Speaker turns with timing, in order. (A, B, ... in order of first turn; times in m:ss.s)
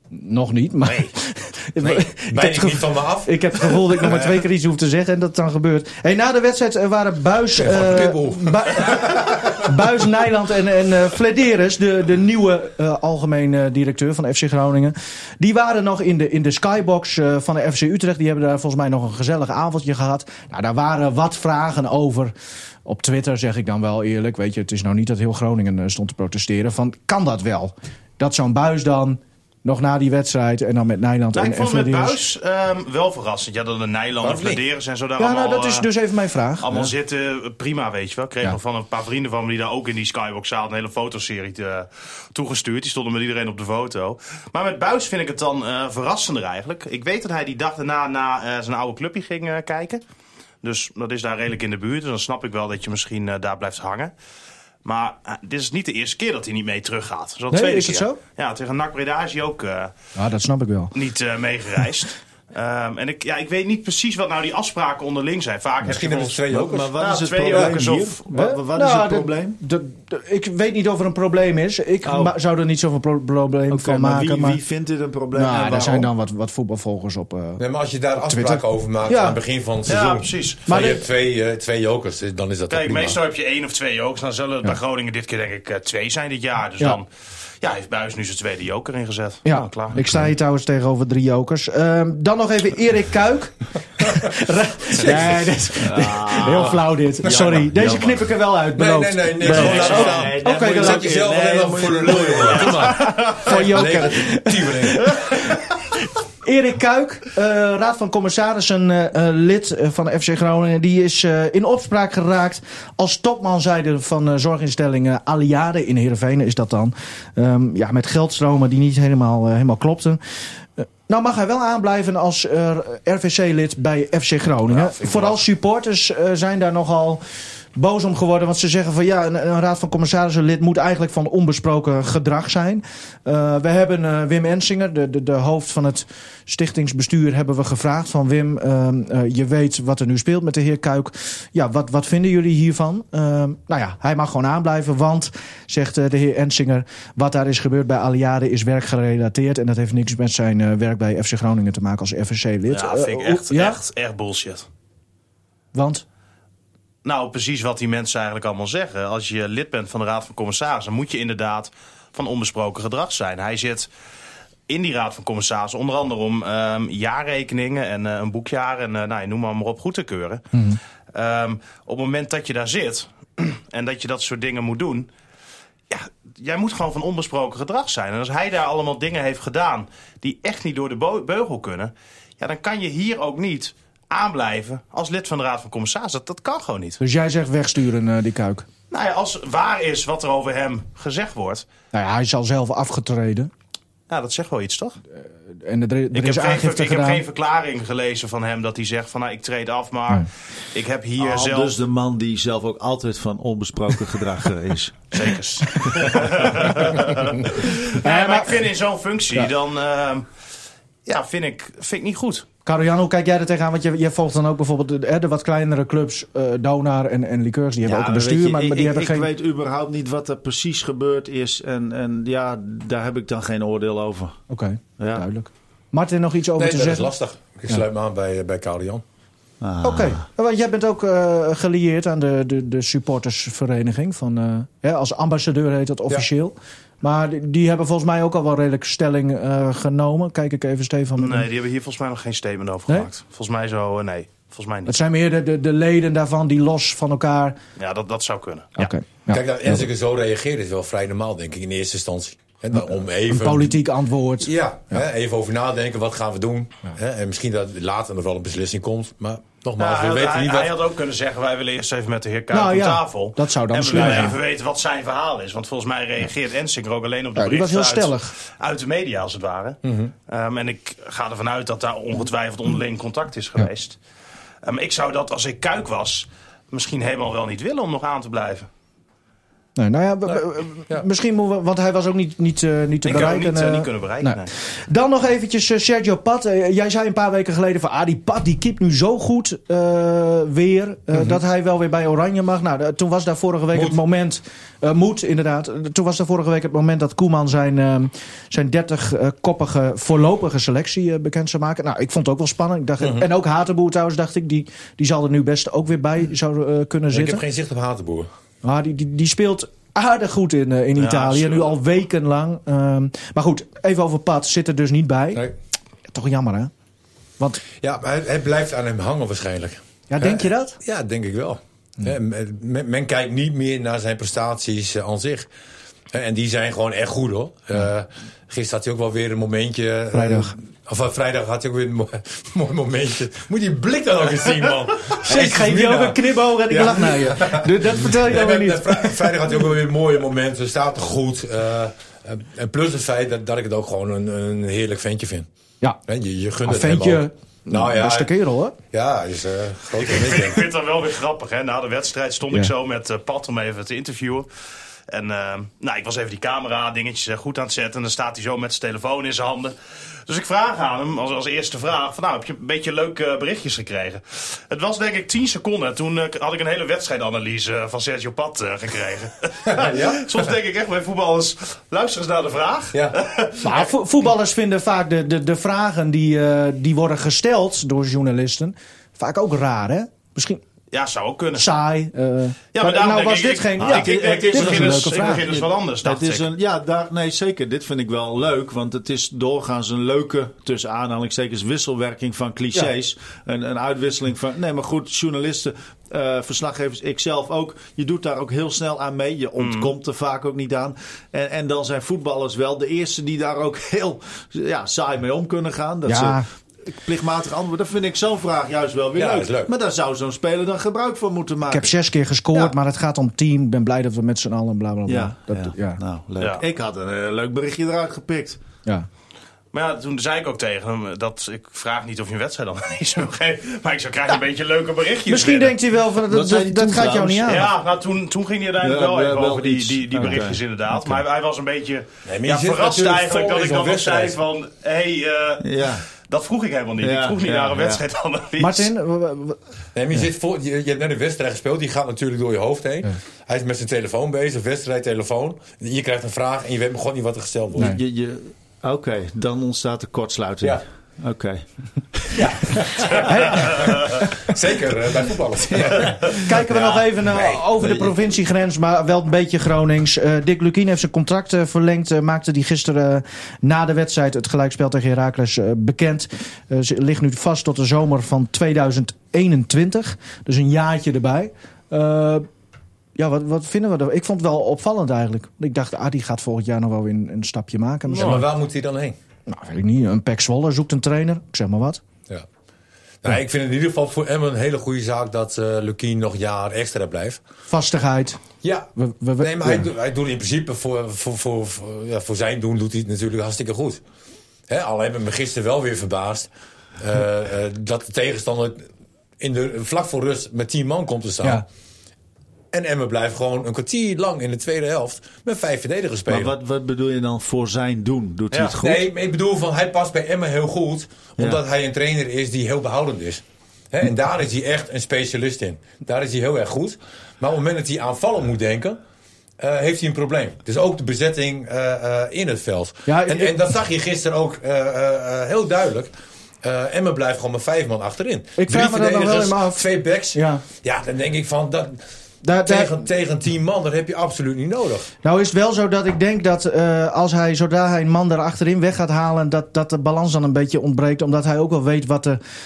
0:00.1-0:22.3 A
0:00.8-0:01.1 B
0:01.8-0:04.4 B
0:07.6-0:09.8 B
0:22.8-0:32.2 A
0:31.3-0:35.9 C
0:34.2-0:34.6 B
0:35.2-0:36.9 A
0:36.6-0:50.0 C
0:50.6-0:54.1 C
0:54.8-0:59.9 C
0:57.5-0:58.2 A
1:00.2-1:00.9 A
1:00.9-1:08.2 C
1:05.8-1:07.0 B
1:06.5-1:09.6 D
1:07.5-1:07.8 B
1:08.3-1:14.6 A
1:12.0-1:12.3 D
1:13.7-1:16.1 D
1:15.3-1:17.6 A
1:17.6-1:23.2 B
1:18.2-1:19.4 A
1:19.8-1:20.6 C
1:20.7-1:21.0 A
1:22.7-1:27.1 C
1:27.6-1:30.0 C
1:29.4-1:41.1 A
1:34.9-1:35.4 B
1:35.8-1:38.3 D
1:38.7-1:45.5 B
1:39.4-1:42.9 D
1:39.5-1:40.2 C
1:42.6-1:43.4 C
1:43.0-1:45.7 A
1:46.4-2:00.2 A
2:00.8-2:07.2 A
2:04.7-2:05.4 C
2:07.7-2:33.8 A
2:32.7-2:34.6 C
2:35.7-2:36.0 A
2:37.0-2:43.9 C
2:44.7-2:50.4 C
2:50.5-2:50.8 A
2:51.1-2:55.1 C
2:55.9-3:07.0 C
3:07.0-3:08.7 A
3:08.9-3:11.6 C
3:11.9-3:13.5 A
3:14.1-3:15.0 C
3:15.5-3:17.2 A
3:16.1-3:21.8 C
3:21.2-3:25.1 D
3:25.1-3:30.2 C
3:27.9-3:28.6 A
3:31.0-3:32.4 C
3:32.6-3:39.3 A
3:37.8-3:44.4 D
3:44.5-3:47.1 A
3:45.0-3:45.2 D
3:46.6-3:49.0 B
3:49.6-3:50.2 D
3:49.8-4:01.4 A
4:01.2-4:04.9 C
4:04.8-4:07.6 A
4:07.8-4:08.9 C
4:08.8-4:09.8 A
4:09.3-4:13.8 B
4:12.7-4:15.0 A
4:14.4-4:20.7 B
4:19.8-4:34.0 C
4:22.5-4:24.4 A
4:23.9-4:24.3 B
4:27.4-4:28.3 A
4:29.8-4:30.1 B
4:34.6-4:38.7 C
4:39.8-5:07.4 A
4:40.2-4:41.0 B
4:43.0-4:44.5 C
4:53.7-4:54.0 B
5:03.0-5:03.3 B
5:07.1-5:08.3 B
5:08.6-5:15.5 A
5:11.0-5:11.8 C
5:16.1-5:16.7 A
5:17.8-5:25.5 B
5:20.1-5:20.8 A
5:26.1-5:45.5 B
5:30.1-5:30.5 A
5:35.2-5:39.4 A
5:46.0-5:48.3 B
5:46.6-5:48.8 A
5:48.9-5:50.6 B
5:50.0-5:54.5 C
5:55.1-5:59.7 C
6:00.3-6:13.9 C
6:09.6-6:10.5 B
6:12.9-6:13.2 B
6:13.6-6:20.6 A
6:20.9-6:21.7 C
6:21.6-6:25.4 A
6:22.7-6:26.5 C
6:23.8-6:51.9 D
6:39.6-6:39.9 C
6:46.1-6:46.4 A
6:49.1-6:49.7 B
6:51.7-6:56.0 A
6:55.1-6:58.6 D
6:59.7-7:05.7 C
7:05.3-7:07.7 A
7:06.3-7:07.6 D
7:07.4-7:18.9 C
7:08.8-7:10.6 D
7:12.2-7:14.4 B
7:15.6-7:16.0 D
7:17.0-7:18.0 D
7:18.6-7:19.6 A
7:19.9-7:28.0 B
7:27.8-7:31.6 D
7:32.1-7:33.2 D
7:32.4-7:36.4 B
7:33.1-7:34.5 A
7:35.8-7:36.3 D
7:36.4-7:52.5 A
7:37.3-7:37.6 B
7:37.8-7:38.1 D
7:53.2-7:58.4 A
7:58.1-7:59.2 B
7:58.1-7:58.4 C
7:59.5-8:02.0 A
8:03.2-8:07.4 B
8:07.7-8:08.4 A
8:08.6-8:14.0 B
8:09.0-8:09.8 A
8:14.7-8:18.8 B
8:19.4-8:21.6 B
8:22.7-8:26.5 B
8:26.3-8:29.0 D
8:28.8-8:39.0 B
8:39.6-8:46.1 B
8:43.0-8:43.6 A
8:46.6-8:52.0 B
8:48.6-8:50.6 A
8:52.4-8:53.0 A
8:52.6-8:55.1 B
8:55.2-9:02.4 A